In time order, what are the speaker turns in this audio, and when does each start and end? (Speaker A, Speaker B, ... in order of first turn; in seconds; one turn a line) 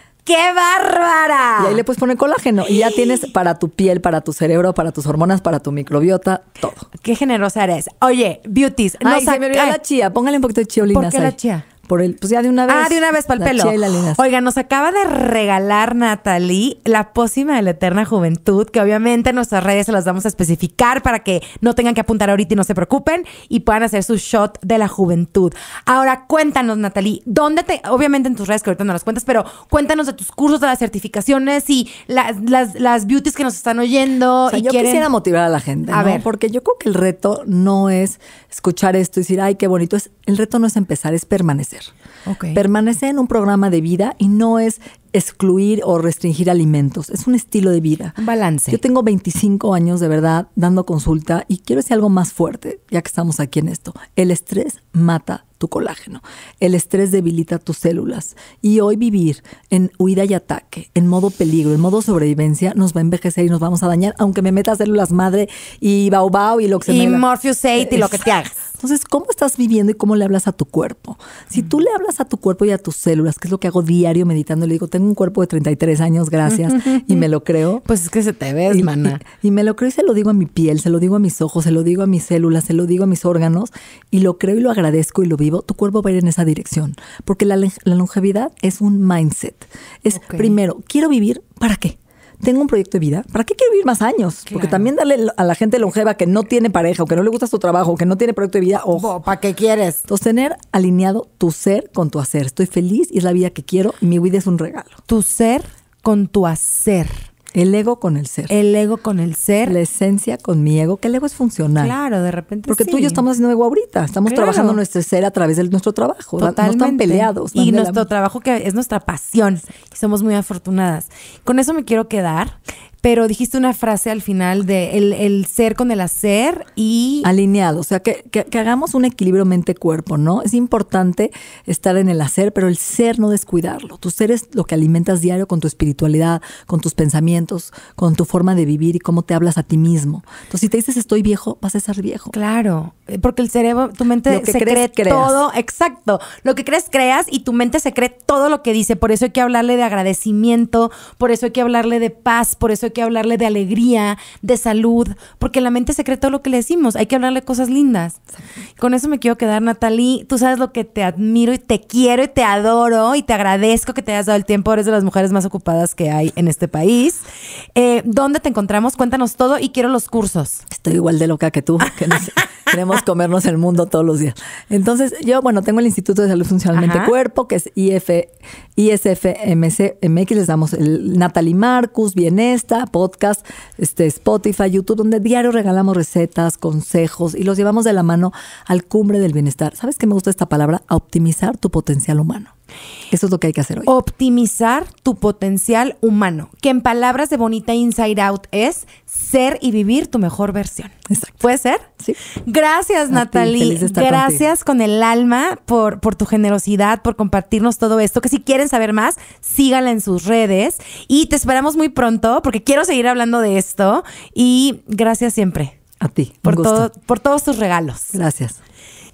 Speaker A: 0.2-1.8
Speaker B: 1.6-6.8
Speaker A: 7.0-9.8
Speaker B: 9.0-14.2
Speaker A: 10.9-11.7
Speaker A: 12.7-35.1
Speaker B: 34.5-41.9
Speaker A: 35.9-36.2
Speaker A: 42.3-42.6
Speaker B: 42.5-48.1
Speaker A: 48.2-48.8
Speaker B: 48.7-67.2
Speaker A: 66.8-68.6
Speaker B: 67.8-68.2
Speaker B: 68.8-77.8
Speaker A: 76.5-77.2
Speaker A: 77.8-79.2
Speaker B: 78.7-99.2
Speaker A: 90.1-90.5
Speaker A: 94.5-94.9
Speaker A: 98.9-100.0
Speaker B: 100.1-105.0
Speaker A: 105.1-107.3
Speaker B: 107.5-108.5
Speaker A: 108.5-109.8
Speaker B: 109.7-111.9
Speaker A: 111.8-113.2
Speaker B: 112.7-118.1
Speaker A: 114.2-114.8
Speaker A: 116.4-127.3
Speaker B: 127.2-142.3
Speaker A: 142.3-158.2
Speaker B: 144.3-145.4
Speaker A: 158.8-167.2
Speaker A: 167.7-170.6
Speaker B: 170.7-192.5
Speaker A: 176.7-177.1
Speaker B: 193.1-193.9
Speaker A: 193.8-201.9
Speaker B: 201.1-201.3
Speaker A: 202.4-215.7
Speaker B: 203.1-204.4
Speaker B: 216.0-216.9
Speaker A: 216.4-218.1
Speaker B: 218.1-218.6